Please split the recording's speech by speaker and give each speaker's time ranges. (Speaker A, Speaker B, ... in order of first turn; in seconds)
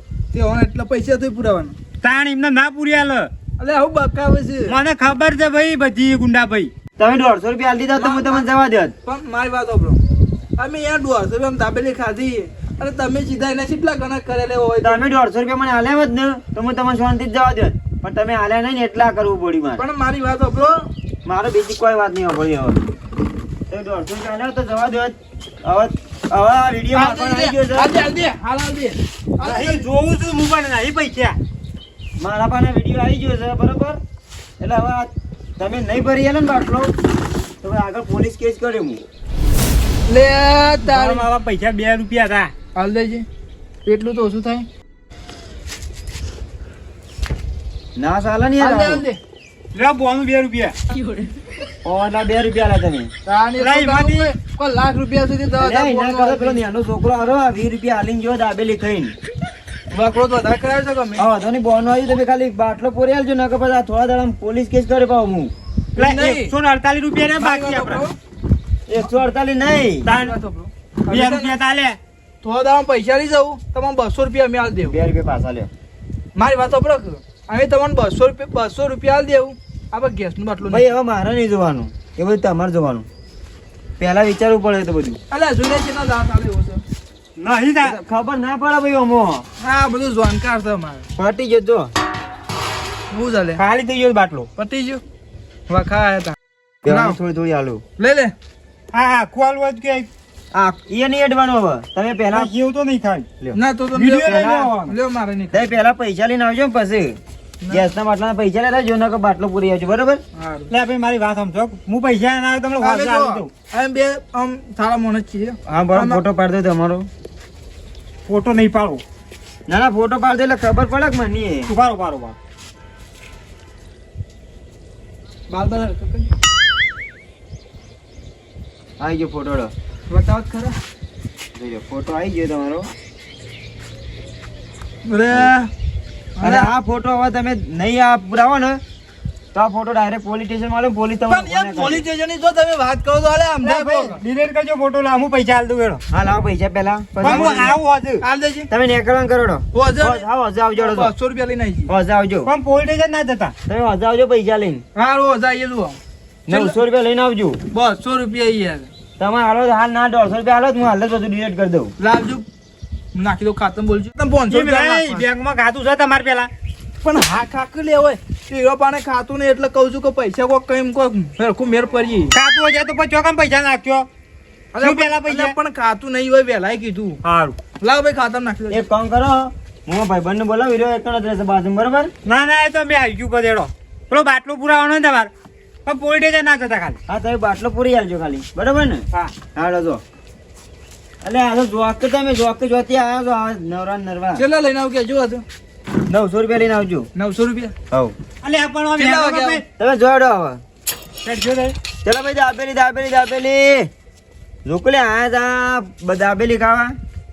Speaker A: 0.3-1.7, 3.6-4.8, 7.9-8.5, 9.0-10.0, 10.6-15.0, 19.8-20.8, 26.9-29.8, 40.1-41.2, 42.7-43.2, 43.9-44.7, 48.6-49.2, 53.2-56.6, 59.9-61.2, 66.0-66.5, 67.4-68.1, 70.1-71.5, 72.4-75.0, 76.3-80.9, 85.3-86.8, 89.6-91.1, 93.1-93.6, 94.6-95.0, 95.7-96.3, 96.9-97.2, 98.0-98.3, 103.5-105.7, 110.3-110.7, 112.8-116.2, 125.5-126.3, 130.1-130.8, 135.1-135.7, 136.4-136.7, 141.3-144.2, 147.2-148.7, 149.7-150.2, 150.8-151.9, 154.9-156.0, 157.7-158.9, 162.0-162.4, 163.1-165.2, 167.0-172.3, 174.7-177.2, 177.8-178.8, 194.3-195.4, 197.2-197.7, 199.0-199.6
Speaker B: 2.0-3.3, 4.7-6.7, 29.4-31.4, 40.8-42.5, 49.7-50.7, 53.6-54.3, 66.0-68.0, 70.0-70.4, 71.1-72.0, 87.4-88.0, 93.6-94.5, 98.9-100.1, 102.3-103.3, 103.9-104.9, 110.7-113.5, 118.3-119.0, 121.7-122.3, 143.6-146.0, 147.2-148.2, 152.4-153.5, 164.5-166.5, 172.3-174.1, 174.8-175.5, 177.2-177.6, 182.2-185.3, 185.8-187.0, 198.4-199.6, 201.2-201.7
Speaker C: 7.0-8.9, 14.8-19.8, 21.2-22.8, 23.7-27.9, 32.2-34.0, 34.6-36.9, 37.6-39.0, 48.0-49.0, 51.8-53.1, 55.6-59.1, 61.2-65.5, 68.9-70.1, 74.9-75.7, 80.6-83.1, 84.0-85.2, 87.8-89.4, 91.2-91.9, 96.8-97.8, 100.5-102.5, 104.2-104.7, 105.5-107.2, 107.7-110.2, 115.7-117.1, 119.7-121.7, 129.0-129.7, 131.5-132.9, 136.4-138.8, 139.5-142.0, 146.1-147.8, 148.7-151.1, 151.9-152.5, 153.7-154.8, 156.5-157.6, 159.2-161.9, 178.7-182.1, 187.1-190.0, 191.2-194.4, 196.1-197.1, 199.8-200.6, 202.0-203.9, 204.6-206.9